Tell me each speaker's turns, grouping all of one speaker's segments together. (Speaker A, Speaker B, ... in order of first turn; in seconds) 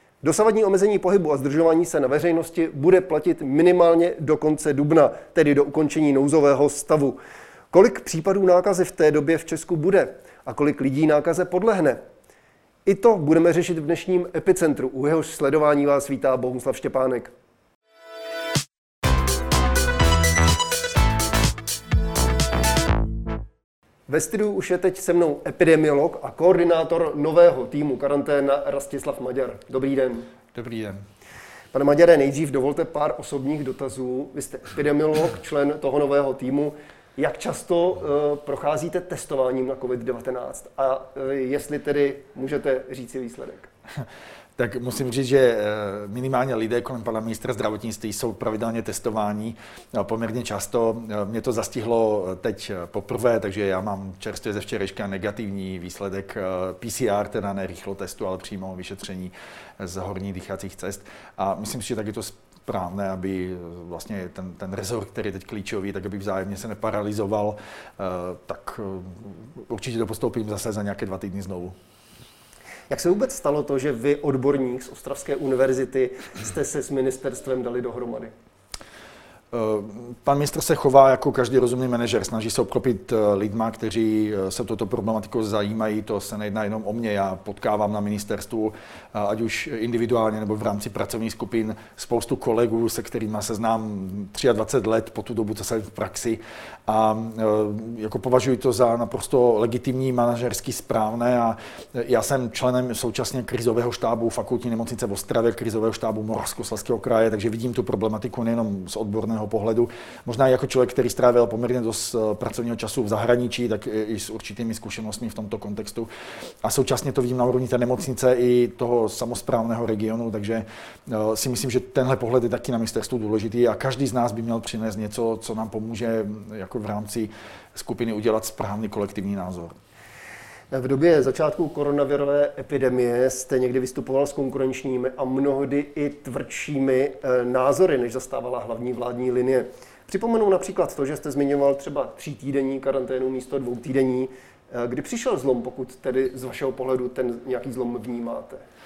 Speaker A: 0.2-7.2, 7.7-12.0, 12.8-17.3, 24.1-30.3, 31.7-43.7, 72.9-78.3, 130.7-148.6
Speaker B: 30.5-31.0, 44.6-71.8, 79.5-116.1, 116.6-129.7